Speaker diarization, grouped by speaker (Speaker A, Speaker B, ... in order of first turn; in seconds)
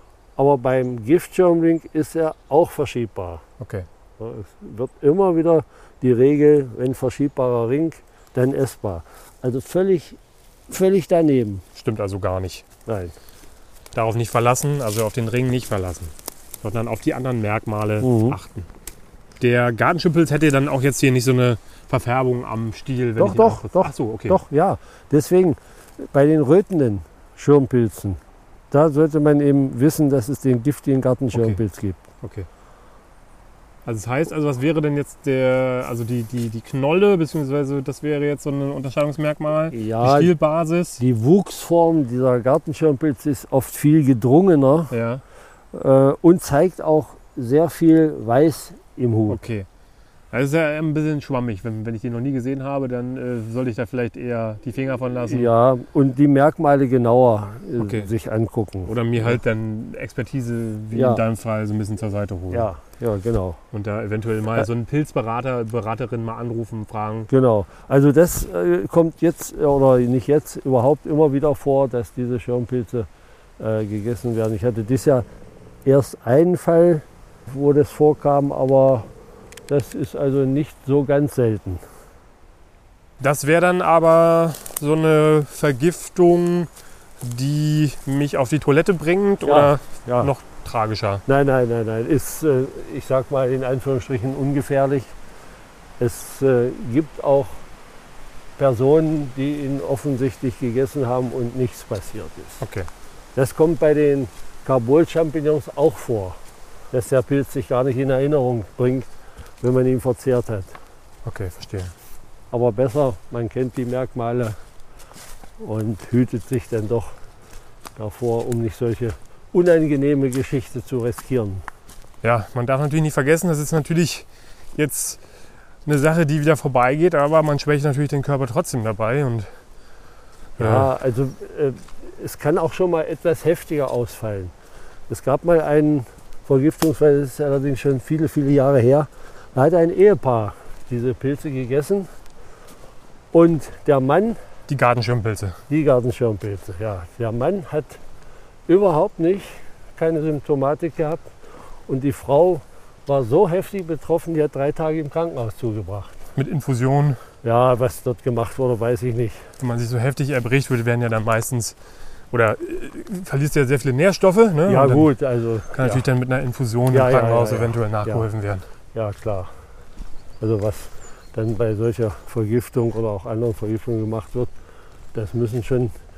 Speaker A: 0.4-3.4, 4.2-11.7, 12.9-13.2, 18.0-18.4, 23.2-32.0, 39.7-40.3, 41.0-44.9, 45.7-49.4, 55.3-59.4, 60.9-61.2, 62.5-63.6, 67.3-73.1, 73.6-75.3, 75.8-79.1, 79.7-81.8, 89.5-90.3, 91.3-95.1, 96.0-97.6, 98.6-102.6, 103.3-106.4, 106.9-109.1, 109.6-110.8, 112.5-114.6, 115.6-117.2, 118.0-121.7, 130.6-134.5, 135.1-142.1, 143.3-144.4, 145.7-148.0, 148.7-151.3, 151.9-156.2, 157.4-159.5, 164.7-166.1, 166.9-168.3, 168.9-169.5, 170.4-174.5, 175.1-175.9
Speaker B: 3.6-3.9, 11.8-12.7, 13.9-18.7, 19.4-24.4, 31.3-31.6, 32.2-32.5, 33.9-41.0, 44.9-45.2, 49.3-49.7, 50.3-55.5, 57.8-58.1, 58.9-62.7, 63.7-67.3, 83.2-86.7, 87.2-91.2, 102.6-102.9, 111.2-111.9, 122.2-125.2, 125.8-129.5, 130.6-130.9, 144.7-145.6, 156.4-157.2, 159.6-161.8, 162.3-165.1, 165.7-168.7